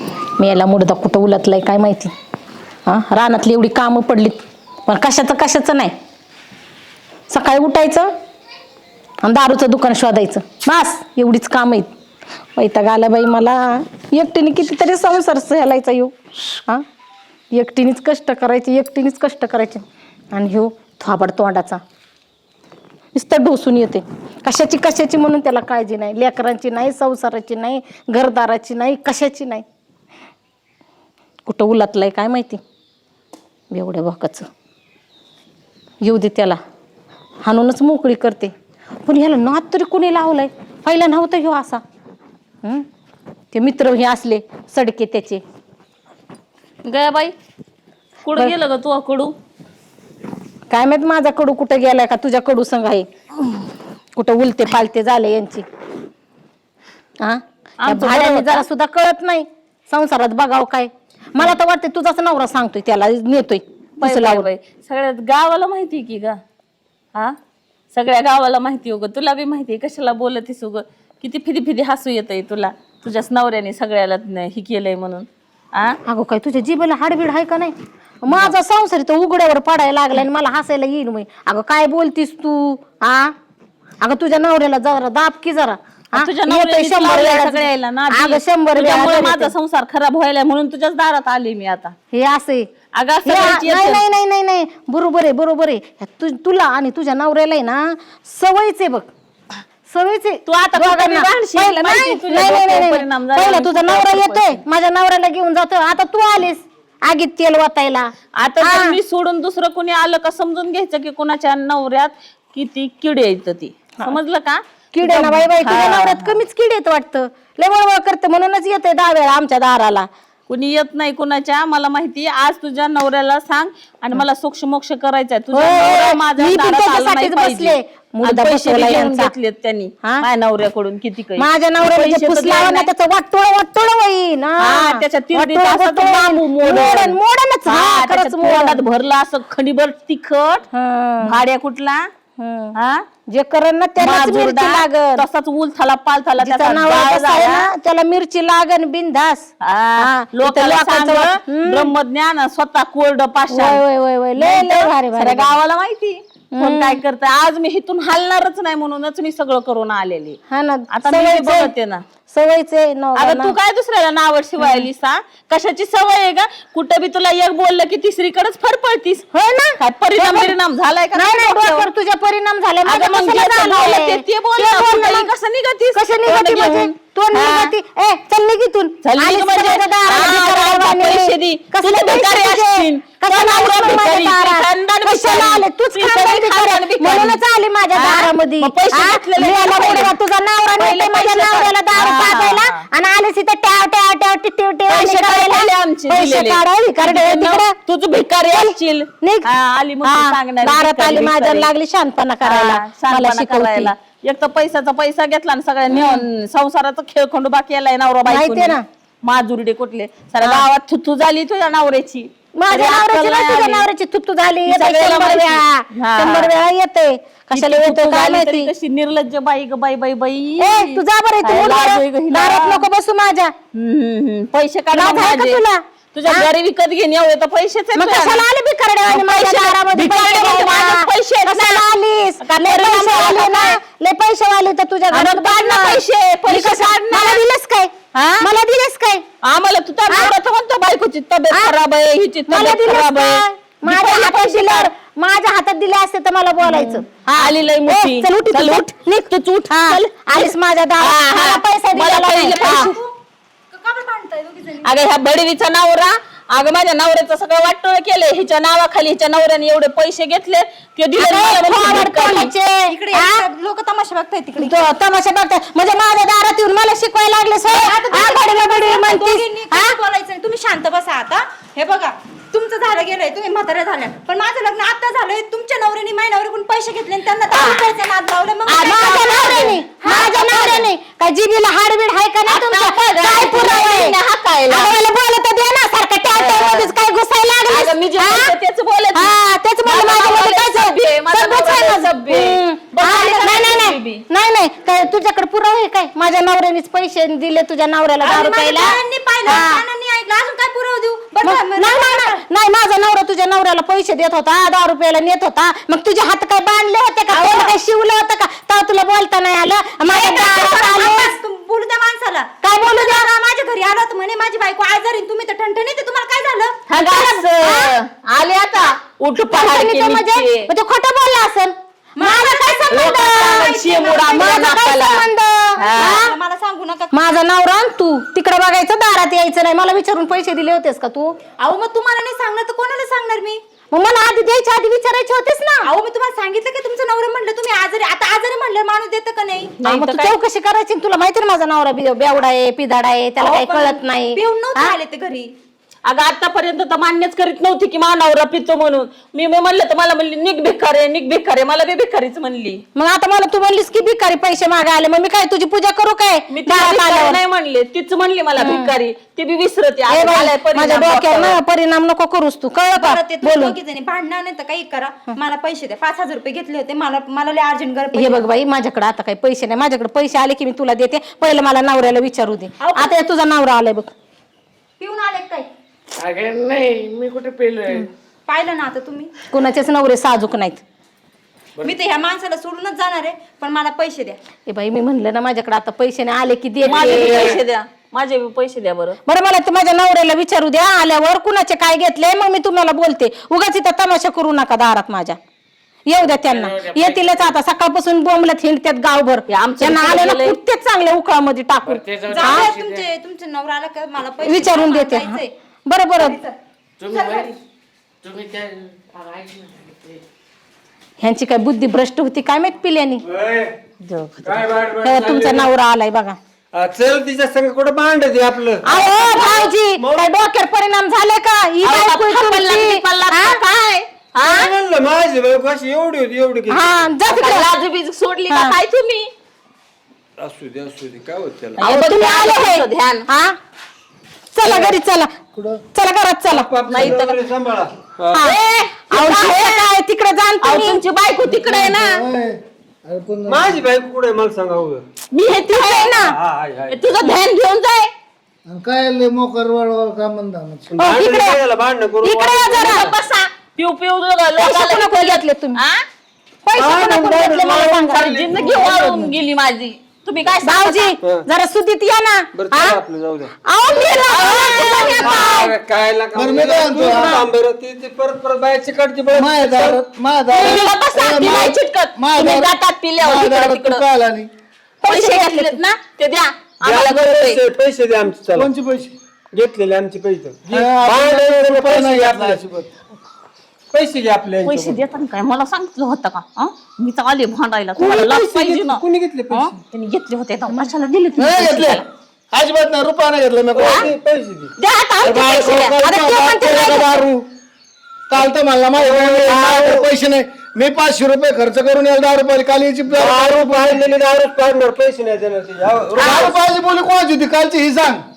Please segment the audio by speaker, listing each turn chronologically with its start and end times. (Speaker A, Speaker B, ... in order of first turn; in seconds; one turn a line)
Speaker A: 0.4-2.1
Speaker A: 2.9-5.9
Speaker A: 7.3-8.1
Speaker A: 9.2-11.9
Speaker A: 12.6-16.8
Speaker A: 17.5-21.8
Speaker A: 23.1-29.6
Speaker A: 31.4-32.6
Speaker A: 33.7-34.5
Speaker A: 36.0-36.6
Speaker A: 37.4-38.5
Speaker A: 39.1-41.8
Speaker A: 43.5-45.4
Speaker B: 46.9-47.3
Speaker B: 48.2-49.3
Speaker A: 50.7-53.1
Speaker A: 54.2-55.6
Speaker A: 57.2-64.5
Speaker B: 57.8-58.7
Speaker B: 64.0-66.4
Speaker B: 67.9-76.0
Speaker A: 76.1-83.3
Speaker B: 78.3-78.5
Speaker A: 84.0-89.5
Speaker B: 86.2-91.9
Speaker A: 92.1-92.7
Speaker B: 92.9-94.0
Speaker A: 93.2-99.1
Speaker A: 99.9-109.0
Speaker B: 100.5-104.6
Speaker B: 108.4-116.4
Speaker A: 115.0-120.1
Speaker B: 120.5-132.9
Speaker A: 125.5-129.3
Speaker A: 131.4-138.8
Speaker B: 134.6-140.7
Speaker A: 140.7-141.4
Speaker B: 141.2-142.0
Speaker A: 142.4-142.8
Speaker B: 142.8-143.0
Speaker A: 143.3-145.2
Speaker B: 144.0-147.7
Speaker A: 146.4-151.9
Speaker B: 149.6-153.8
Speaker A: 153.5-155.6
Speaker B: 154.4-160.4
Speaker A: 156.6-157.0
Speaker A: 160.5-161.7
Speaker B: 160.9-162.0
Speaker A: 162.3-163.6
Speaker B: 163.2-169.2
Speaker A: 164.6-164.9
Speaker A: 169.3-170.5
Speaker B: 169.8-171.9
Speaker A: 171.1-175.3
Speaker B: 172.9-177.7
Speaker A: 175.9-197.8
Speaker B: 179.0-187.4
Speaker B: 187.9-190.2
Speaker B: 190.8-192.8
Speaker B: 194.9-201.7
Speaker A: 198.5-199.5
Speaker A: 200.0-203.9
Speaker B: 202.4-213.9
Speaker A: 205.9-206.2
Speaker A: 208.3-208.8
Speaker A: 210.4-210.7
Speaker A: 212.6-218.7
Speaker B: 214.7-216.6
Speaker B: 217.5-222.9
Speaker A: 220.6-223.5
Speaker B: 223.8-225.6
Speaker A: 224.9-226.5
Speaker B: 226.1-228.4
Speaker A: 227.9-239.2
Speaker B: 229.1-231.8
Speaker B: 232.4-233.8
Speaker B: 235.1-237.4
Speaker B: 238.1-238.4
Speaker B: 239.4-244.9
Speaker A: 240.1-240.4
Speaker A: 242.5-252.9
Speaker B: 246.6-253.0
Speaker C: 252.5-253.1
Speaker C: 253.7-255.1
Speaker B: 254.8-262.5
Speaker A: 261.2-263.4
Speaker C: 262.9-264.8
Speaker A: 264.6-270.0
Speaker C: 267.7-280.9
Speaker B: 277.5-277.9
Speaker B: 278.7-279.8
Speaker A: 278.8-284.2
Speaker B: 282.5-285.0
Speaker A: 284.7-288.6
Speaker B: 286.4-286.9
Speaker B: 287.7-289.3
Speaker A: 289.1-299.8
Speaker B: 289.8-294.2
Speaker C: 298.2-302.4
Speaker A: 301.4-311.4
Speaker C: 307.3-307.7
Speaker C: 310.1-316.8
Speaker A: 312.6-313.3
Speaker B: 316.9-320.7
Speaker A: 316.9-318.0
Speaker A: 319.5-323.7
Speaker C: 322.2-324.6
Speaker B: 322.9-325.2
Speaker A: 324.3-326.4
Speaker B: 325.8-326.2
Speaker C: 325.9-327.1
Speaker A: 327.1-331.4
Speaker C: 331.6-333.6
Speaker A: 333.9-335.9
Speaker C: 335.8-339.7
Speaker B: 339.8-340.4
Speaker A: 339.8-344.9
Speaker C: 343.4-345.5
Speaker B: 346.1-352.8
Speaker A: 353.0-357.4
Speaker B: 356.5-361.6
Speaker A: 358.6-358.9
Speaker A: 360.1-363.8
Speaker C: 363.0-368.4
Speaker A: 368.1-374.1
Speaker C: 372.8-373.1
Speaker C: 375.0-375.7
Speaker D: 376.2-378.1
Speaker C: 378.5-379.3
Speaker A: 379.5-380.8
Speaker C: 381.8-384.4
Speaker A: 384.7-387.6
Speaker B: 386.8-389.2
Speaker D: 387.0-387.6
Speaker A: 389.3-395.4
Speaker A: 396.1-402.8
Speaker D: 396.4-397.5
Speaker B: 399.5-400.6
Speaker D: 401.9-403.1
Speaker C: 402.3-405.5
Speaker A: 404.4-406.4
Speaker C: 406.2-406.6
Speaker D: 407.0-407.6
Speaker C: 407.1-407.6
Speaker D: 408.2-410.2
Speaker A: 411.2-413.2
Speaker E: 413.3-413.7
Speaker B: 414.0-414.6
Speaker E: 414.4-415.7
Speaker A: 415.0-416.4
Speaker E: 416.7-420.3
Speaker A: 418.8-423.7
Speaker B: 419.3-419.6
Speaker B: 421.8-424.7
Speaker E: 424.5-426.9
Speaker A: 426.7-427.8
Speaker B: 427.3-429.3
Speaker A: 428.5-428.8
Speaker E: 430.4-431.9
Speaker B: 431.8-433.3
Speaker A: 431.8-433.6
Speaker A: 434.6-435.3
Speaker B: 434.6-434.9
Speaker F: 435.5-435.8
Speaker A: 435.9-436.7
Speaker E: 436.5-438.4
Speaker B: 436.9-437.4
Speaker A: 438.3-438.6
Speaker B: 438.3-440.0
Speaker A: 439.1-441.0
Speaker B: 440.6-442.2
Speaker F: 441.4-443.8
Speaker E: 443.5-445.0
Speaker B: 445.3-446.3
Speaker A: 445.7-446.4
Speaker E: 446.3-447.0
Speaker B: 446.9-448.1
Speaker F: 448.7-450.9
Speaker E: 450.9-453.1
Speaker A: 451.0-451.6
Speaker A: 452.2-453.1
Speaker B: 452.7-456.0
Speaker A: 454.6-455.8
Speaker A: 456.7-459.0
Speaker E: 456.8-459.2
Speaker B: 458.2-461.1
Speaker A: 460.6-463.0
Speaker E: 462.6-463.5
Speaker A: 463.7-465.7
Speaker B: 463.9-465.7
Speaker F: 463.9-465.3
Speaker E: 465.2-470.0
Speaker F: 466.3-467.4
Speaker A: 466.9-467.5
Speaker F: 469.3-474.5
Speaker B: 470.5-474.0
Speaker A: 475.0-476.0
Speaker B: 475.1-477.6
Speaker E: 476.8-478.7
Speaker F: 478.6-479.2
Speaker E: 479.5-482.6
Speaker F: 480.7-482.9
Speaker E: 483.9-485.0
Speaker B: 484.6-492.0
Speaker E: 487.9-489.8
Speaker F: 491.4-494.1
Speaker E: 493.7-494.7
Speaker B: 494.8-496.2
Speaker F: 495.2-497.4
Speaker A: 496.0-497.2
Speaker F: 498.3-504.1
Speaker E: 498.9-500.1
Speaker E: 503.1-506.5
Speaker F: 506.2-508.2
Speaker B: 506.2-506.5